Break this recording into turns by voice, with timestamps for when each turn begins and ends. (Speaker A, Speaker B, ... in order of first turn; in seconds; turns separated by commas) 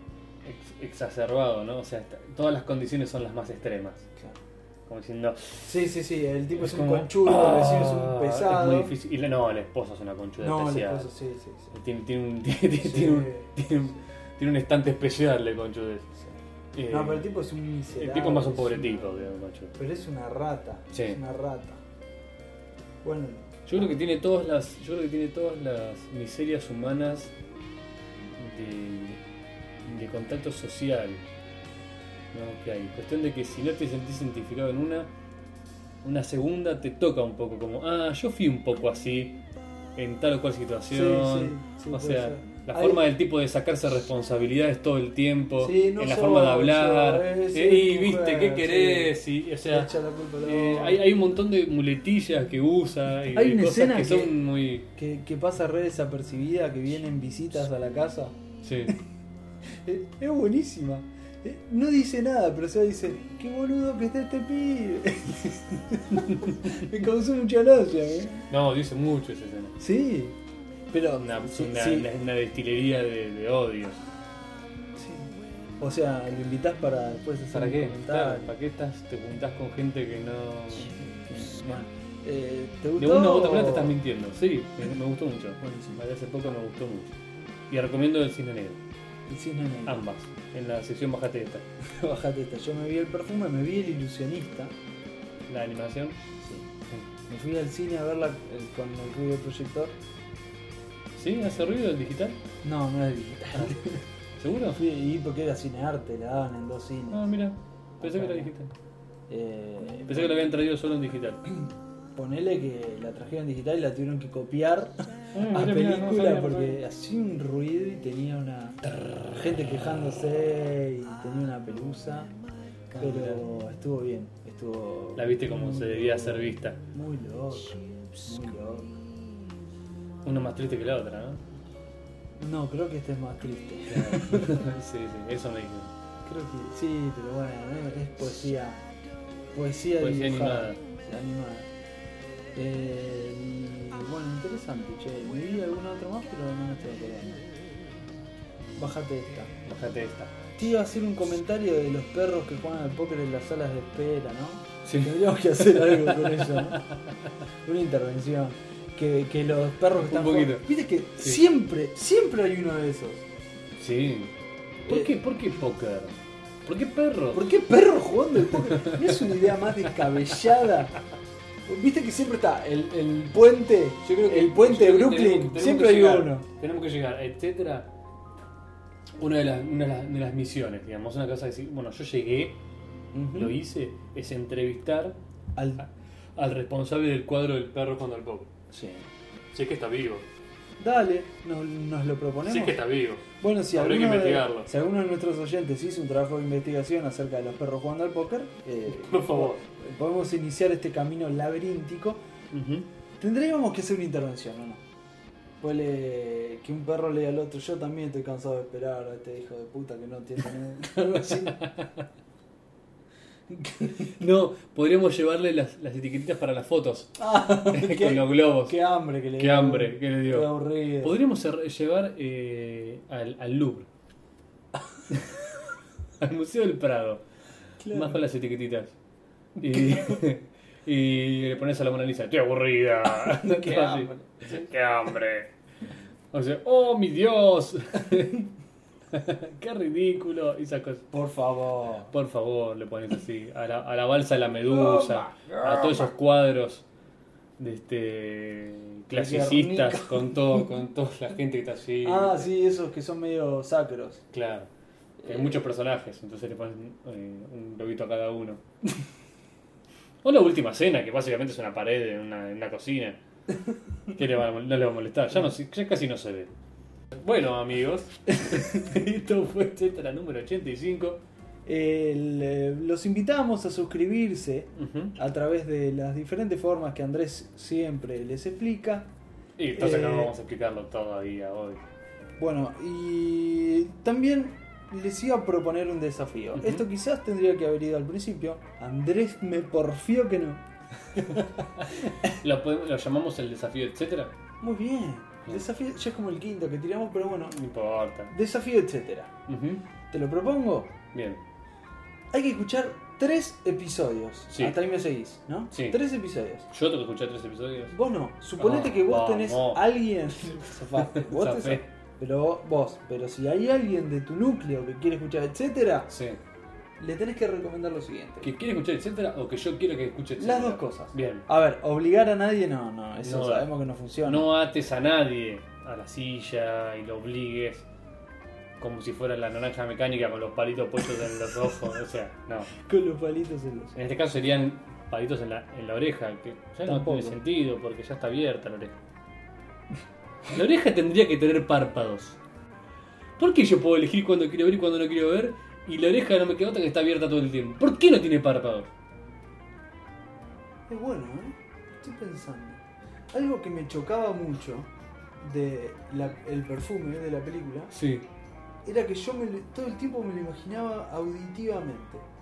Speaker A: 0.4-4.1, Speaker A: 4.9-5.7, Speaker B: 5.6-8.9, Speaker A: 6.5-11.1, Speaker B: 10.4-11.7, Speaker A: 11.7-16.1, Speaker B: 12.8-13.6, Speaker A: 16.7-17.2, Speaker B: 16.9-19.2, Speaker A: 17.9-19.8, Speaker B: 19.8-21.8, Speaker A: 20.9-21.2, Speaker B: 23.0-24.0, Speaker A: 23.6-27.3, Speaker A: 28.3-29.2, Speaker A: 29.8-31.3, Speaker A: 32.3-35.1, Speaker A: 36.0-39.4, Speaker A: 40.0-49.9, Speaker B: 40.9-43.0, Speaker B: 45.6-49.1, Speaker B: 49.7-51.0, Speaker A: 50.4-54.9, Speaker B: 53.3-54.4, Speaker B: 55.0-58.4, Speaker A: 58.6-59.0, Speaker B: 59.6-68.4, Speaker A: 68.5-69.8, Speaker B: 69.8-70.4, Speaker B: 70.9-72.1, Speaker A: 71.2-74.0, Speaker B: 75.0-78.5, Speaker A: 77.5-81.0, Speaker B: 80.7-84.0, Speaker A: 83.0-87.1, Speaker B: 85.6-86.0, Speaker A: 87.7-88.8, Speaker B: 89.3-90.0, Speaker A: 89.8-91.6, Speaker B: 91.9-94.7, Speaker A: 95.5-96.2, Speaker B: 96.4-96.7, Speaker B: 97.3-100.0, Speaker A: 101.1-102.4, Speaker B: 102.6-104.0, Speaker A: 103.5-103.8, Speaker A: 104.4-104.8, Speaker B: 104.7-107.3, Speaker A: 107.1-108.7, Speaker B: 108.0-108.5, Speaker B: 109.3-110.4, Speaker A: 110.1-111.4, Speaker B: 111.5-122.3, Speaker A: 115.3-116.8, Speaker A: 122.9-123.4, Speaker B: 123.0-129.0, Speaker A: 125.2-126.8, Speaker A: 130.2-131.4, Speaker B: 132.4-134.7, Speaker A: 133.9-135.9, Speaker B: 136.2-138.8, Speaker B: 139.5-141.7, Speaker A: 140.0-140.8, Speaker B: 142.5-147.5, Speaker B: 148.8-149.5, Speaker A: 149.6-150.4, Speaker B: 150.6-156.8, Speaker A: 154.8-157.1, Speaker B: 157.6-163.2, Speaker A: 160.0-160.7, Speaker A: 163.8-164.3, Speaker A: 164.8-167.5, Speaker B: 164.8-165.2, Speaker B: 167.3-170.9, Speaker A: 168.5-169.6, Speaker B: 171.7-176.4, Speaker A: 174.0-177.9, Speaker A: 179.2-182.6, Speaker B: 183.1-183.6, Speaker A: 183.3-185.2, Speaker B: 185.6-185.8, Speaker A: 185.8-188.5, Speaker B: 188.7-189.1, Speaker A: 189.5-190.3, Speaker B: 190.8-202.2, Speaker A: 192.4-194.7, Speaker A: 198.9-199.6, Speaker A: 202.5-202.9, Speaker B: 203.2-204.8, Speaker B: 205.6-211.6, Speaker A: 211.1-212.0, Speaker B: 213.5-214.0, Speaker A: 213.9-218.8, Speaker B: 217.2-221.2, Speaker A: 219.4-223.9, Speaker A: 225.1-225.4, Speaker A: 226.2-227.2, Speaker B: 227.8-228.2, Speaker A: 227.9-228.9, Speaker A: 229.6-235.5, Speaker B: 229.7-230.2, Speaker B: 233.2-234.6, Speaker A: 236.3-238.5, Speaker A: 239.1-241.1, Speaker B: 241.1-242.1, Speaker A: 242.1-246.8, Speaker B: 244.6-246.1, Speaker A: 247.6-252.5, Speaker B: 249.1-250.7, Speaker B: 252.0-254.2, Speaker A: 254.3-254.7, Speaker B: 255.2-255.7, Speaker A: 255.2-258.6, Speaker A: 260.2-263.2, Speaker A: 264.1-266.5, Speaker A: 267.1-271.2, Speaker B: 271.6-279.1, Speaker A: 274.8-275.1, Speaker A: 279.6-281.8, Speaker B: 279.7-280.3, Speaker B: 282.4-290.6, Speaker A: 286.5-286.8, Speaker B: 291.1-291.5, Speaker A: 291.3-294.3, Speaker B: 294.6-297.6, Speaker A: 297.5-298.3, Speaker B: 298.3-299.3, Speaker A: 299.5-299.8, Speaker B: 300.1-300.9, Speaker A: 301.1-301.4, Speaker B: 302.3-306.7, Speaker A: 305.7-306.0, Speaker A: 306.7-307.9, Speaker B: 307.9-316.1, Speaker A: 308.6-309.8, Speaker A: 310.9-311.8, Speaker A: 316.1-316.4, Speaker B: 317.0-318.5, Speaker A: 318.4-321.5, Speaker B: 320.4-324.5, Speaker A: 323.2-323.7, Speaker A: 324.2-327.9, Speaker A: 328.8-332.7, Speaker B: 332.8-334.0, Speaker A: 333.9-339.0, Speaker B: 336.8-337.4, Speaker A: 340.5-342.4, Speaker A: 343.4-348.9, Speaker B: 350.9-357.9, Speaker A: 357.9-358.2, Speaker B: 358.8-362.2